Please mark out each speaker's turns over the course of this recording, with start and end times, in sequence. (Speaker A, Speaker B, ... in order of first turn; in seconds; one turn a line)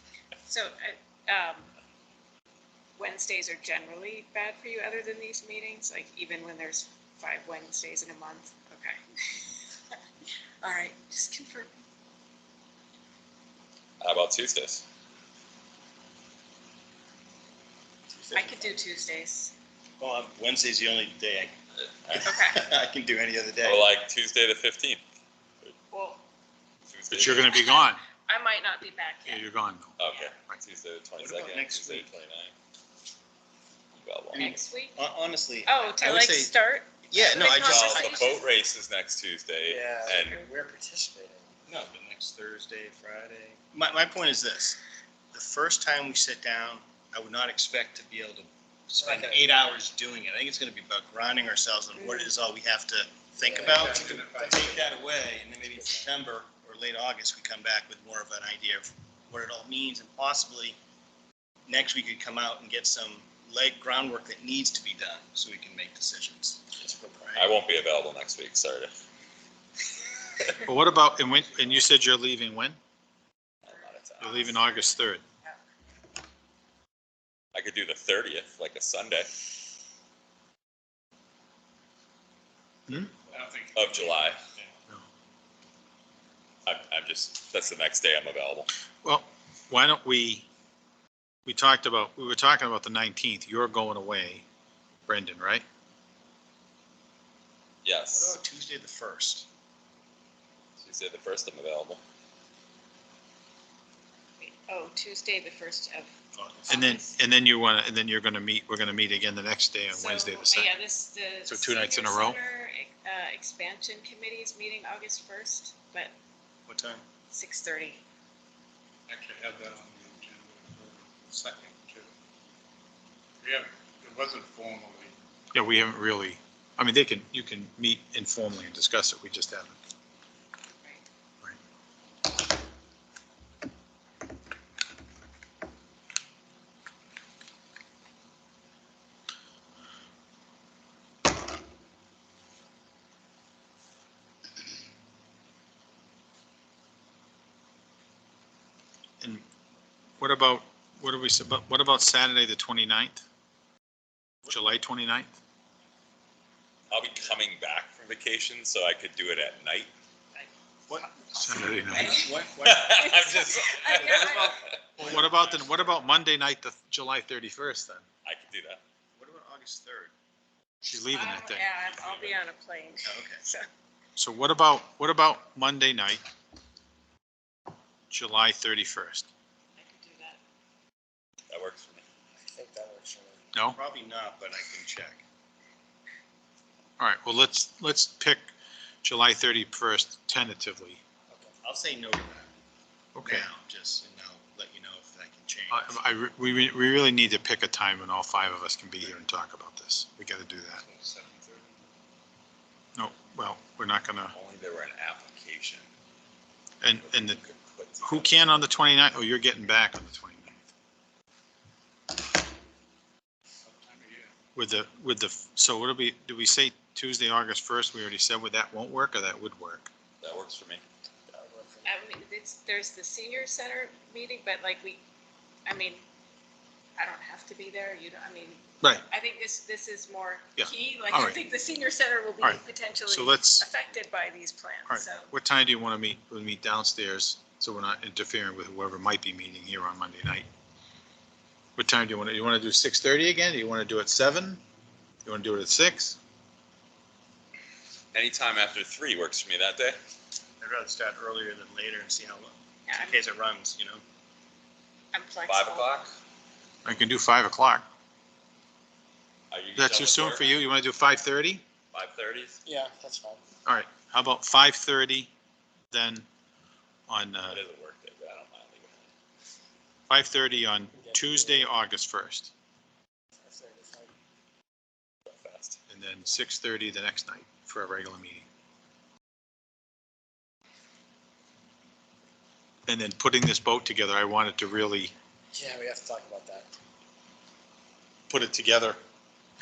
Speaker A: 0.5-1.7
Speaker A: 3.0-9.5
Speaker A: 10.6-11.8
Speaker B: 14.0-14.8
Speaker C: 18.1-18.4
Speaker A: 18.3-19.5
Speaker C: 20.0-21.5
Speaker C: 22.1-23.9
Speaker A: 22.2-22.6
Speaker B: 23.6-25.0
Speaker A: 25.9-26.2
Speaker B: 26.9-27.6
Speaker D: 27.1-28.0
Speaker A: 27.4-29.5
Speaker D: 29.2-30.0
Speaker B: 30.0-32.5
Speaker C: 31.2-32.2
Speaker B: 33.9-34.5
Speaker C: 34.3-36.5
Speaker A: 34.4-35.0
Speaker A: 35.6-38.4
Speaker C: 37.1-38.4
Speaker B: 37.4-40.4
Speaker E: 39.6-41.5
Speaker A: 40.1-40.5
Speaker C: 41.7-44.8
Speaker C: 45.3-60.8
Speaker E: 49.0-49.4
Speaker A: 52.0-52.3
Speaker E: 53.4-53.8
Speaker F: 53.6-54.9
Speaker E: 55.7-56.1
Speaker C: 61.6-66.6
Speaker E: 66.8-67.5
Speaker B: 67.3-68.9
Speaker D: 70.6-72.8
Speaker B: 73.6-74.4
Speaker A: 73.7-75.6
Speaker D: 74.2-75.2
Speaker B: 77.5-79.3
Speaker D: 82.9-83.1
Speaker F: 83.3-84.4
Speaker B: 83.7-84.4
Speaker B: 86.7-88.7
Speaker D: 89.0-90.5
Speaker D: 91.5-94.4
Speaker D: 95.1-95.6
Speaker B: 97.8-98.4
Speaker C: 98.1-99.5
Speaker B: 100.8-102.0
Speaker A: 104.4-106.1
Speaker C: 106.3-106.8
Speaker A: 106.7-107.1
Speaker D: 106.7-110.7
Speaker A: 109.9-116.1
Speaker D: 111.5-112.4
Speaker C: 116.7-117.0
Speaker A: 117.3-118.0
Speaker F: 119.1-122.1
Speaker F: 123.4-125.1
Speaker D: 125.5-129.8
Speaker D: 150.2-153.2
Speaker D: 154.5-155.3
Speaker B: 156.9-159.9
Speaker C: 160.9-163.4
Speaker A: 161.0-162.2
Speaker D: 161.3-162.3
Speaker B: 162.6-164.8
Speaker A: 162.8-164.6
Speaker D: 165.0-168.1
Speaker B: 168.2-168.8
Speaker C: 169.2-170.1
Speaker D: 170.8-171.7
Speaker A: 171.1-173.7
Speaker B: 171.9-172.3
Speaker C: 173.0-173.4
Speaker D: 174.2-176.2
Speaker D: 178.1-179.3
Speaker A: 179.8-180.4
Speaker B: 181.5-182.0
Speaker E: 182.6-183.5
Speaker C: 183.7-185.2
Speaker D: 187.0-188.5
Speaker D: 189.0-191.0
Speaker C: 191.6-192.5
Speaker D: 193.1-193.4
Speaker C: 193.2-196.0
Speaker D: 195.7-200.8
Speaker F: 200.8-201.8
Speaker D: 202.9-204.3
Speaker B: 204.3-205.9
Speaker D: 206.8-207.4
Speaker B: 207.0-208.6
Speaker D: 208.0-210.7
Speaker F: 213.6-214.3
Speaker D: 214.5-219.9
Speaker B: 220.2-220.8
Speaker E: 221.3-221.9
Speaker A: 221.8-225.0
Speaker A: 225.7-226.0
Speaker A: 227.0-235.3
Speaker D: 228.8-229.1
Speaker D: 230.6-231.4
Speaker D: 232.4-233.6
Speaker D: 234.9-240.5
Speaker D: 241.8-244.6
Speaker D: 245.2-246.2
Speaker B: 248.1-250.0
Speaker C: 250.6-254.0
Speaker A: 252.9-253.2
Speaker A: 255.1-256.1
Speaker B: 255.4-256.1
Speaker D: 256.8-257.8
Speaker B: 259.5-260.5
Speaker D: 259.8-261.6
Speaker B: 261.9-262.6
Speaker E: 262.6-263.4
Speaker D: 263.6-265.3
Speaker D: 265.9-266.2
Speaker D: 267.1-267.6
Speaker B: 267.5-269.1
Speaker D: 270.1-272.5
Speaker E: 271.0-271.6
Speaker E: 273.4-274.1
Speaker B: 275.2-275.8
Speaker D: 275.9-278.4
Speaker D: 282.9-285.1
Speaker E: 285.5-286.7
Speaker D: 288.3-289.0